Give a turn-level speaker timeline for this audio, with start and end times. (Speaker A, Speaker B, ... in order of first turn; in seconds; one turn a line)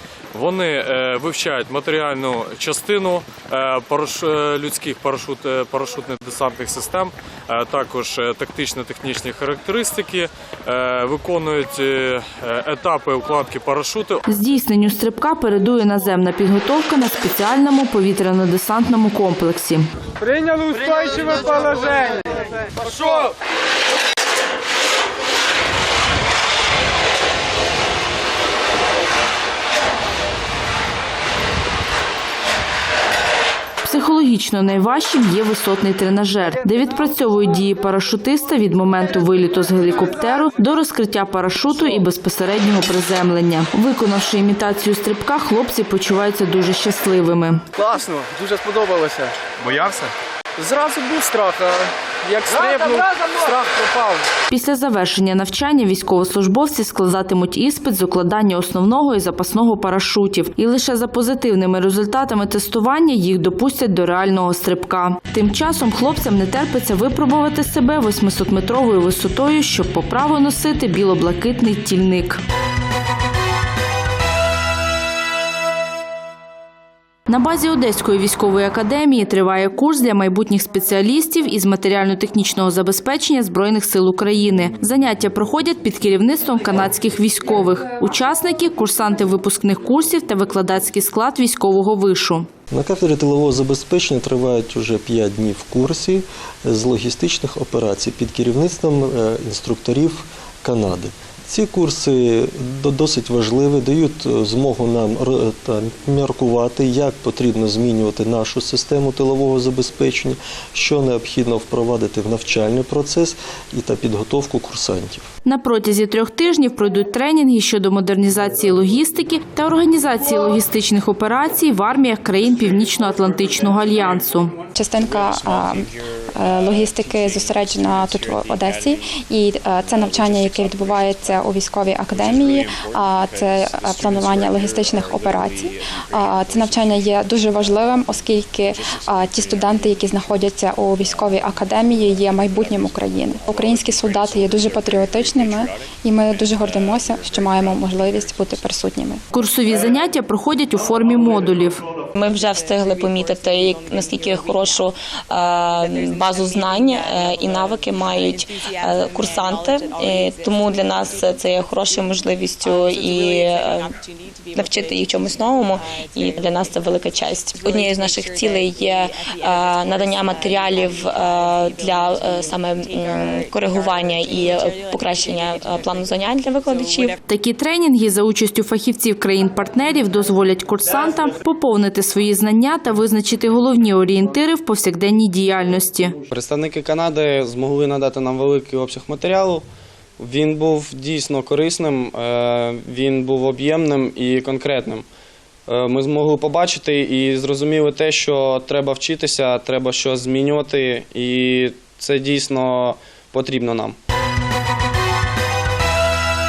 Speaker A: 0.3-14.2
Speaker B: 14.3-19.9
Speaker B: 33.8-47.6
Speaker C: 47.8-49.9
Speaker C: 50.6-54.3
Speaker B: 54.5-72.4
Speaker B: 77.3-92.5
Speaker D: 92.7-115.3
Speaker B: 115.5-124.6
Speaker E: 124.7-149.2
Speaker B: 149.3-151.8
Speaker F: 152.2-164.0
Speaker F: 164.5-177.2
Speaker B: 177.3-186.2
Speaker G: 186.3-189.7
Speaker G: 190.2-195.1
Speaker G: 195.7-204.0